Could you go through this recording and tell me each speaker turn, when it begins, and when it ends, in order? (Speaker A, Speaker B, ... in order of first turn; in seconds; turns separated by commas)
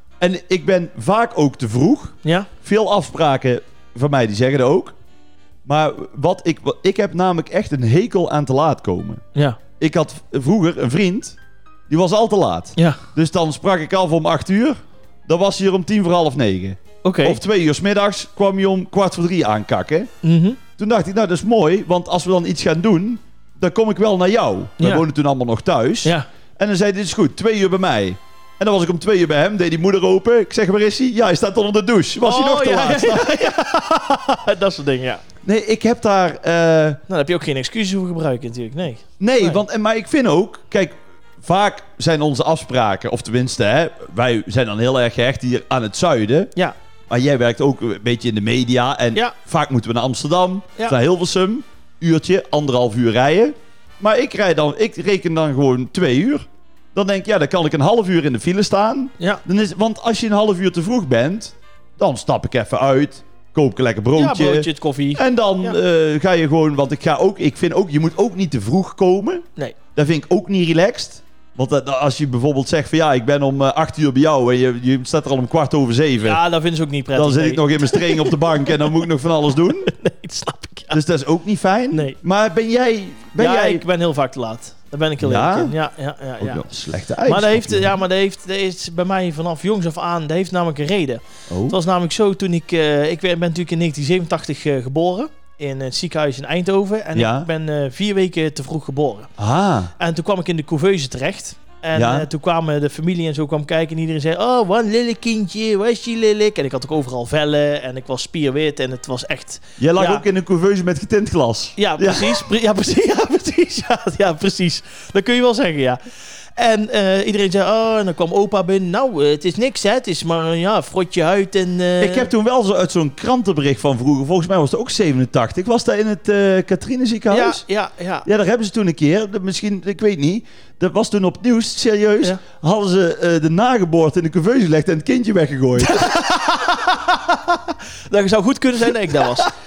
Speaker A: 0.2-5.0, Speaker B: 2.2-2.5, Speaker A: 5.7-9.2, Speaker A: 9.8-11.4, Speaker A: 11.9-20.1, Speaker B: 12.8-13.0, Speaker B: 17.0-17.4, Speaker B: 20.2-20.6, Speaker A: 20.8-33.5, Speaker B: 24.8-25.0, Speaker B: 32.2-35.2, Speaker A: 35.4-37.0, Speaker B: 37.1-39.6, Speaker A: 39.2-46.5, Speaker A: 47.1-76.4, Speaker B: 64.2-65.8, Speaker B: 76.2-79.0, Speaker A: 77.2-79.9, Speaker B: 79.8-81.0, Speaker A: 80.9-83.8, Speaker B: 81.9-82.2, Speaker B: 83.4-86.6, Speaker A: 85.2-85.8, Speaker A: 86.4-88.0, Speaker B: 87.2-99.3, Speaker A: 91.5-91.8, Speaker A: 97.2-97.5, Speaker A: 99.4-99.9, Speaker B: 100.0-110.2, Speaker A: 102.0-102.3, Speaker A: 109.8-112.5, Speaker B: 111.8-116.0, Speaker B: 116.6-122.3, Speaker A: 122.0-127.6, Speaker B: 127.3-128.3, Speaker A: 128.2-136.1, Speaker B: 135.8-139.5, Speaker A: 139.1-139.5